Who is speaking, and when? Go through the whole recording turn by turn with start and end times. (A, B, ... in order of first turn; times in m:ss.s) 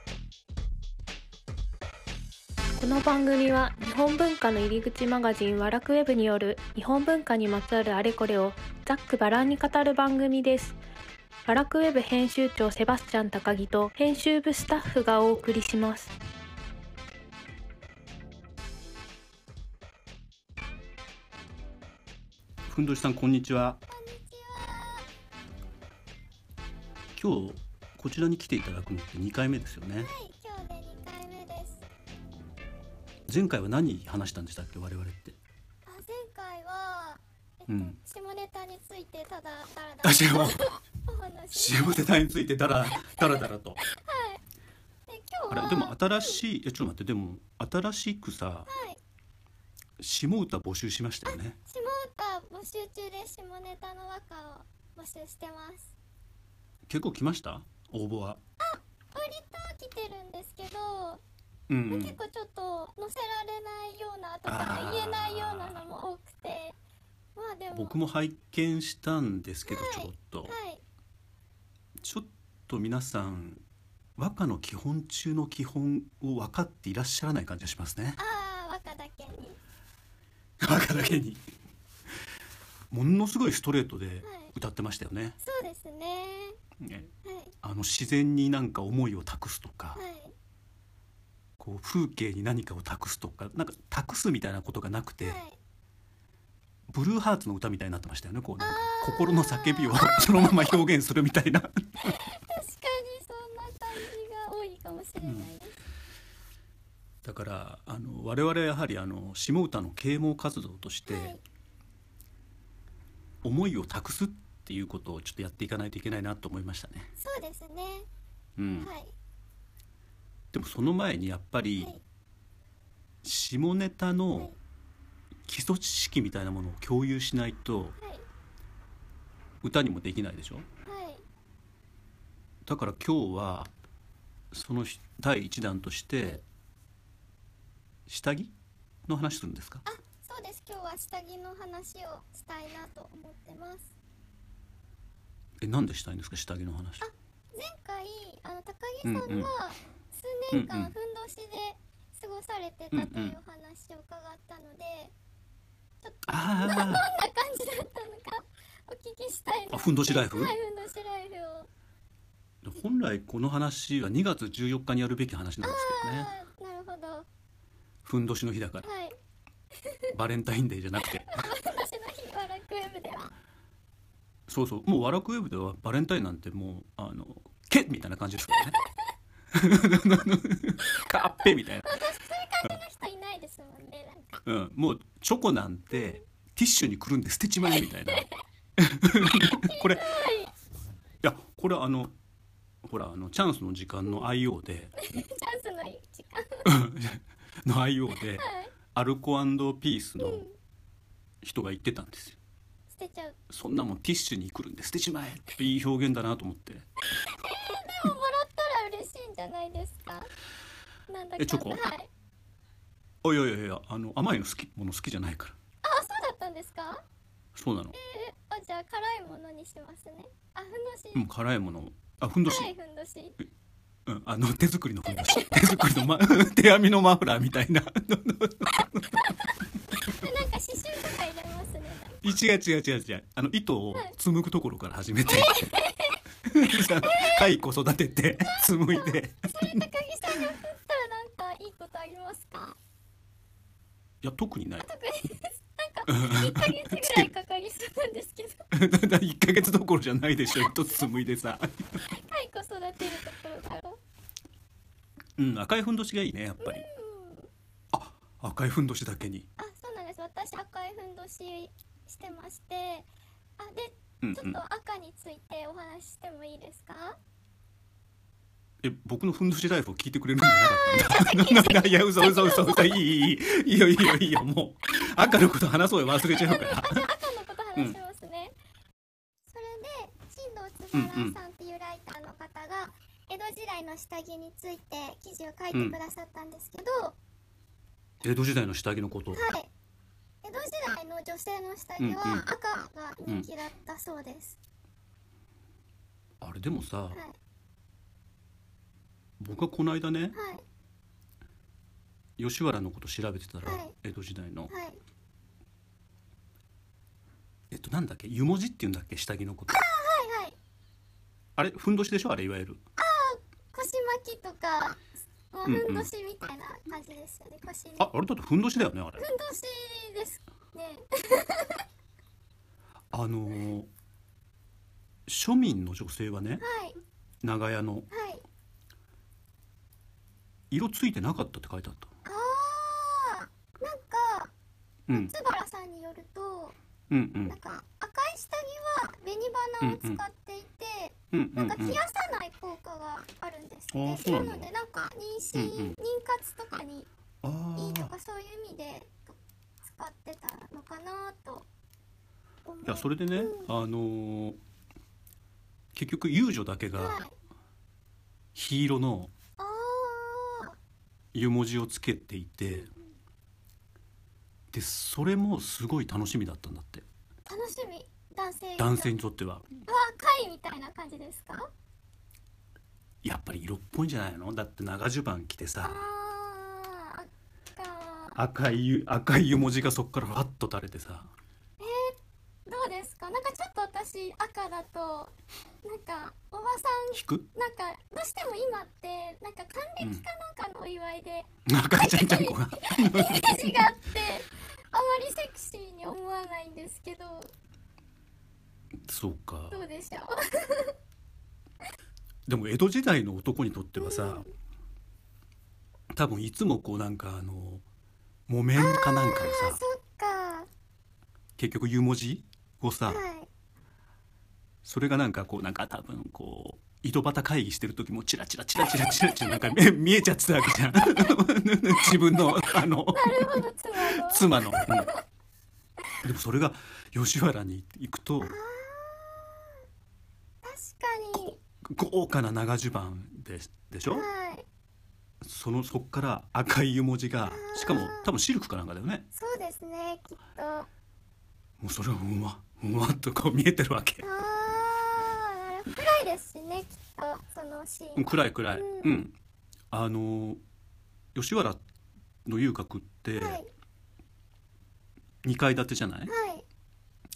0:02.8-0:10.8 A
0:11.5-0:16.1 A
0:22.7-0:23.8 B
0:23.9-0:25.1 C
0:27.2-0:30.1 B
0:30.0-0:31.8 C
0:33.3-0:35.4 B
0:35.9-0:41.9 C
0:37.7-0:38.0 B
0:40.0-0:40.7 B
0:41.5-0:43.8 B
0:43.9-0:44.4 C
0:45.1-0:46.4 C
0:45.5-0:48.7 B
0:48.7-0:49.0 C
0:50.0-0:51.6 B
0:51.3-0:55.9 C
0:56.9-0:58.4 B
0:58.6-1:01.2 C
1:01.7-1:02.2 B
1:01.9-1:06.8 C
1:04.5-1:05.9 B
1:07.4-1:08.0 C
1:07.7-1:10.6 B
1:09.7-1:10.8 C
1:12.0-1:13.6 B
1:14.2-1:18.2 B
1:18.2-1:19.6 C
1:20.6-1:21.4 B
1:22.9-1:25.4 B
1:24.2-1:24.5 C
1:25.4-1:26.6 C
1:26.8-1:27.1 B
1:27.2-1:27.5 C
1:27.6-1:30.0 B
1:30.0-1:30.3 C
1:31.6-1:35.4 B
1:35.2-1:35.6 C
1:36.9-1:42.2 B
1:38.6-1:40.7 C
1:42.0-1:45.8 C
1:45.2-1:45.5 B
1:47.2-1:51.4 B
1:51.1-1:51.4 C
1:53.4-1:57.1 B
1:57.2-1:58.1 C
1:58.6-1:58.9 B
1:58.8-1:59.1 C
2:00.5-2:02.0 B
2:03.2-2:04.5 B
2:05.5-2:08.0 B
2:08.0-2:08.2 C
2:09.6-2:10.7 B
2:10.9-2:11.2 C
2:12.6-2:13.7 B
2:14.5-2:16.4 B
2:18.1-2:18.5 B
2:19.1-2:19.8 B
2:19.9-2:23.9 C
2:25.6-2:27.0 B
2:27.0-2:35.1 C
2:29.0-2:29.5 B
2:30.5-2:30.9 B
2:32.9-2:33.4 B
2:36.0-2:41.7 C
2:36.3-2:37.1 B
2:39.7-2:40.5 B
2:42.6-2:46.3 B
2:45.6-2:47.3 C
2:48.0-2:48.9 B
2:48.8-2:49.2 C
2:49.9-2:50.1 C
2:50.1-2:51.4 B
2:51.2-2:53.3 C
2:54.5-2:58.8 B
2:59.5-3:01.9 B
3:01.4-3:04.4 C
3:04.4-3:08.3 B
3:05.9-3:06.2 C
3:07.8-3:08.3 C
3:08.8-3:10.0 B
3:09.2-3:10.5 C
3:11.2-3:12.1 B
3:12.8-3:14.9 B
3:15.0-3:16.7 C
3:16.6-3:20.5 B
3:18.4-3:18.7 C
3:20.2-3:20.6 C
3:21.4-3:22.4 B
3:22.9-3:23.4 C
3:23.5-3:26.9 B
3:27.2-3:30.3 C
3:31.1-3:32.1 C
3:31.4-3:31.8 B
3:33.2-3:35.6 B
3:35.8-3:37.0 C
3:37.6-3:38.0 B
3:37.9-3:41.2 C
3:41.2-3:42.7 B
3:42.5-3:43.4 C
3:44.1-3:49.1 B
3:45.2-3:45.9 C
3:49.1-3:52.2 C
3:52.2-3:55.6 B
3:55.3-3:56.2 C
3:56.5-4:00.5 B
3:57.0-3:57.5 C
3:58.4-4:02.8 C
4:04.2-4:04.9 B
4:04.8-4:08.7 C
4:06.1-4:07.3 B
4:08.7-4:12.0 B
4:12.0-4:14.0 C
4:15.4-4:16.9 B
4:16.6-4:17.5 C
4:17.9-4:19.5 B
4:19.6-4:23.1 C
4:23.6-4:27.2 C
4:24.2-4:24.6 B
4:28.8-4:37.1 B
4:30.4-4:33.1 C
4:36.3-4:38.5 C
4:39.5-4:47.2 C
4:40.9-4:41.4 B
4:45.7-4:46.0 B
4:48.2-4:49.5 B
4:49.3-4:49.7 C
4:50.4-4:54.6 C
4:52.0-4:52.4 B
4:56.4-4:57.2 B
4:59.4-5:00.4 B
5:00.3-5:00.6 C
5:02.4-5:04.7 B
5:03.6-5:03.9 C
5:04.7-5:05.0 C
5:07.7-5:09.8 B
5:09.7-5:10.6 C
5:11.6-5:12.8 B
5:13.0-5:15.0 C
5:15.5-5:18.1 C
5:15.6-5:16.1 B
5:18.0-5:19.2 B
5:19.2-5:21.8 C
5:23.1-5:23.9 B
5:25.3-5:26.6 B
5:26.6-5:27.0 C
5:27.4-5:28.1 B
5:28.1-5:28.4 C
5:30.7-5:32.1 B
5:32.3-5:34.5 C
5:35.1-5:35.3 B
5:35.1-5:36.8 C
5:37.1-5:37.6 B
5:37.5-5:47.1 C
5:39.8-5:40.2 B
5:41.3-5:42.0 B
5:43.9-5:44.7 B
5:45.5-5:46.0 B
5:47.4-5:48.1 B
5:47.8-5:51.7 C
5:52.7-5:53.7 C
5:52.8-5:54.6 B
5:55.9-5:57.2 B
5:57.0-5:57.3 C
5:58.6-5:59.3 B
5:59.6-6:00.8 C
6:01.3-6:02.9 B
6:02.7-6:03.1 C
6:04.7-6:07.0 B
6:07.5-6:09.1 C
6:08.8-6:09.7 B
6:09.9-6:11.7 C
6:13.2-6:16.0 B
6:15.8-6:18.4 C
6:18.4-6:21.3 B
6:21.8-6:25.3 C
6:25.8-6:37.5 C
6:27.1-6:27.5 B
6:31.7-6:33.9 B
6:39.0-6:39.8 B
6:39.7-6:40.9 C
6:42.5-6:44.5 B
6:44.0-6:44.5 C
6:46.1-6:47.8 B
6:48.5-6:49.8 B
6:48.8-6:50.7 C
6:51.6-6:53.2 B
6:53.1-6:53.5 C
6:54.8-7:05.1 B
6:59.2-6:59.7 C
7:03.1-7:05.2 C
7:06.2-7:08.5 B
7:08.4-7:09.7 C
7:10.6-7:11.6 C
7:11.8-7:14.3 B
7:14.1-7:14.6 C
7:15.4-7:19.3 B
7:17.5-7:18.3 C
7:19.4-7:20.9 C
7:21.8-7:24.2 B
7:24.2-7:29.2 C
7:28.2-7:29.3 B
7:29.9-7:30.6 B
7:31.4-7:31.8 B
7:32.4-7:33.6 B
7:33.4-7:33.7 C
7:35.4-7:36.3 B
7:36.3-7:36.6 C